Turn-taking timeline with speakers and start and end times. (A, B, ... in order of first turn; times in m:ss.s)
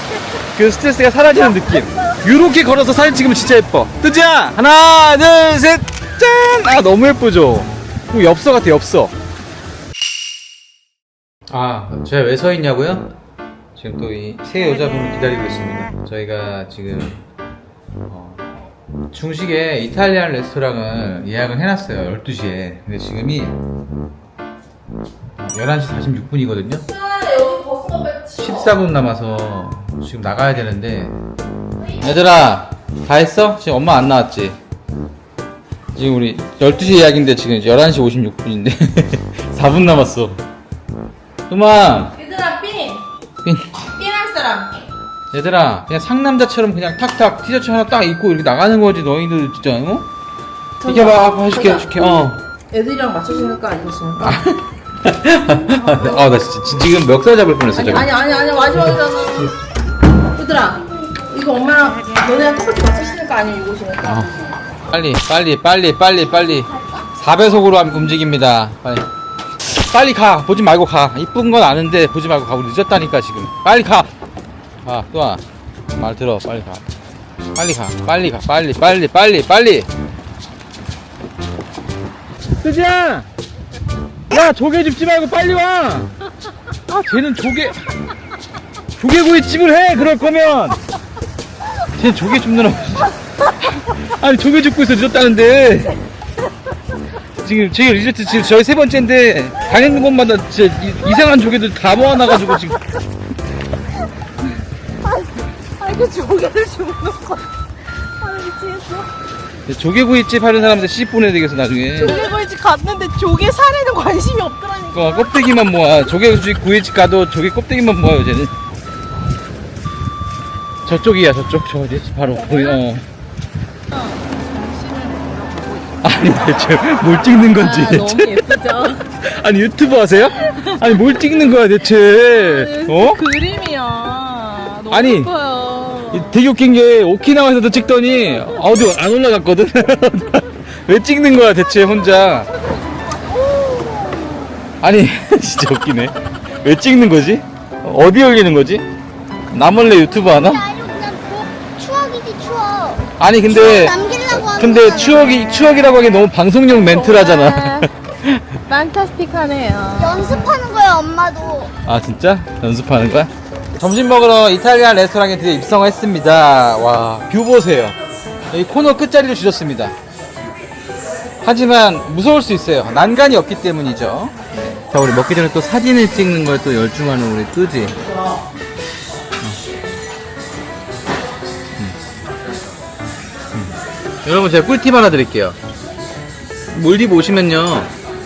0:00.6-0:09.1 A
0:11.5-0:13.1 A
0:13.8-0:17.2 A
0:18.1-0:18.4 A
0:19.1-0:23.6 A
0:25.4-0:26.8 A
0:26.9-0:28.7 B
0:28.4-0:31.2 A
0:31.9-0:32.2 C
0:32.0-0:34.6 A
0:36.0-0:40.4 A
0:41.5-0:42.2 A
0:42.2-0:43.0 B
0:43.4-0:43.8 A
0:44.0-0:44.8 B
0:45.3-0:50.1 A
0:50.8-0:52.2 B
0:50.8-0:52.4 A
0:52.7-0:54.4 B
0:54.2-0:58.1 A
0:55.9-0:56.2 B
0:57.8-0:59.5 B
1:00.4-1:04.2 B
1:04.0-1:04.4 A
1:04.9-1:09.1 A
1:09.8-1:14.1 A
1:14.8-1:15.4 A
1:16.0-1:16.8 A
1:17.6-1:19.9 A
1:22.6-1:23.3 A
1:24.3-1:26.1 A
1:26.9-1:27.8 A
1:29.0-1:30.8 A
1:32.0-1:33.1 A
1:33.7-1:36.0 A
1:37.4-1:42.8 A
1:45.0-1:47.5 B
1:48.2-1:49.1 B
1:49.7-1:52.2 A
1:52.0-1:55.6 B
1:54.9-1:58.5 A
2:00.8-2:03.0 A
2:02.4-2:02.8 B
2:03.9-2:06.3 B
2:06.0-2:13.2 A
2:07.5-2:09.1 B
2:10.4-2:11.1 B
2:12.2-2:16.4 B
2:14.9-2:15.3 A
2:16.1-2:22.5 A
2:22.5-2:24.4 B
2:24.8-2:28.9 A
2:29.5-2:30.6 A
2:30.1-2:35.4 C
2:33.2-2:38.6 A
2:36.8-2:37.9 B
2:38.7-2:40.6 B
2:39.9-2:41.7 C
2:41.8-2:48.0 A
2:48.5-2:50.0 A
2:51.4-2:54.4 A
2:54.9-2:58.0 A
3:03.6-3:05.6 A
3:06.7-3:07.9 A